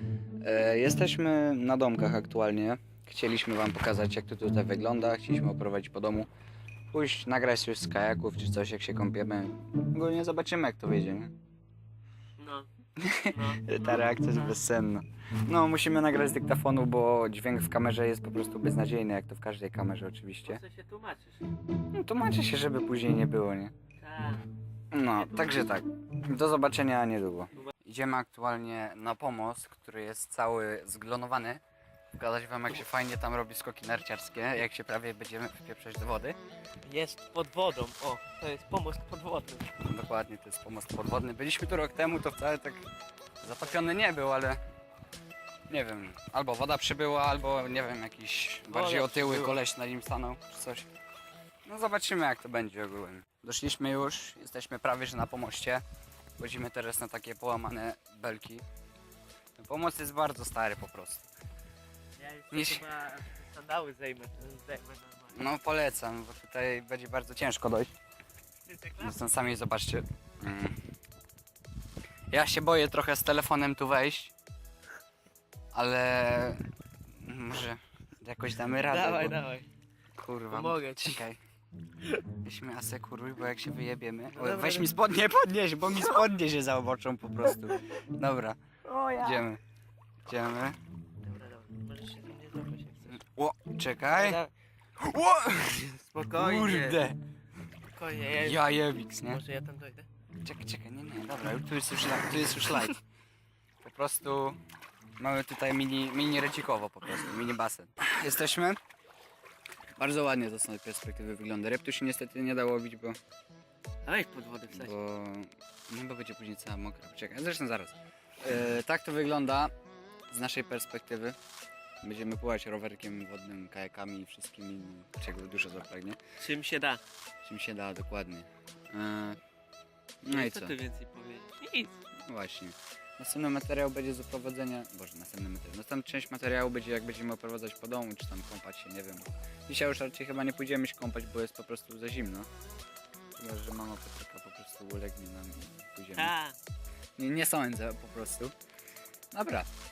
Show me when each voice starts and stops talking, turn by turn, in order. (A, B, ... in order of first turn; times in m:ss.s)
0:00.4-0:06.3 A
0:06.9-0:11.4 A
0:12.4-0:12.7 B
0:13.0-0:20.6 A
0:13.2-0:14.6 B
0:20.4-0:21.4 B
0:21.9-0:23.7 A
0:24.0-0:24.5 B
0:24.9-0:31.6 A
0:25.1-0:25.8 B
0:32.2-0:36.4 A
0:36.8-0:39.8 B
0:39.8-0:42.9 A
0:43.4-0:44.6 A
0:45.7-0:50.9 A
0:48.7-0:49.6 B
0:51.6-0:55.8 A
0:56.4-0:58.6 A
0:59.6-1:01.2 A
1:02.2-1:05.4 B
1:02.5-1:02.8 A
1:05.3-1:07.9 A
1:08.6-1:09.2 B
1:09.0-1:10.8 A
1:12.3-1:14.3 A
1:15.7-1:19.4 A
1:18.7-1:19.7 B
1:20.2-1:21.4 A
1:20.5-1:21.2 B
1:22.2-1:28.6 A
1:24.3-1:25.0 B
1:25.9-1:26.2 B
1:28.8-1:29.5 B
1:29.2-1:29.6 A
1:30.2-1:30.8 A
1:31.2-1:33.2 B
1:33.1-1:34.4 A
1:34.1-1:34.5 B
1:35.0-1:37.2 A
1:35.6-1:37.0 B
1:37.9-1:40.1 B
1:38.3-1:39.4 A
1:40.4-1:43.0 A
1:43.8-1:44.6 A
1:45.2-1:48.8 A
1:50.0-1:53.2 A
1:54.0-1:55.0 B
1:54.7-1:59.7 A
2:00.3-2:01.4 A
2:02.0-2:06.2 A
2:06.4-2:07.0 B
2:07.4-2:09.4 A
2:10.2-2:10.8 A
2:10.3-2:12.0 B
2:12.2-2:22.5 A
2:23.4-2:26.3 A
2:26.1-2:26.6 B
2:27.2-2:28.5 A
2:29.3-2:29.7 A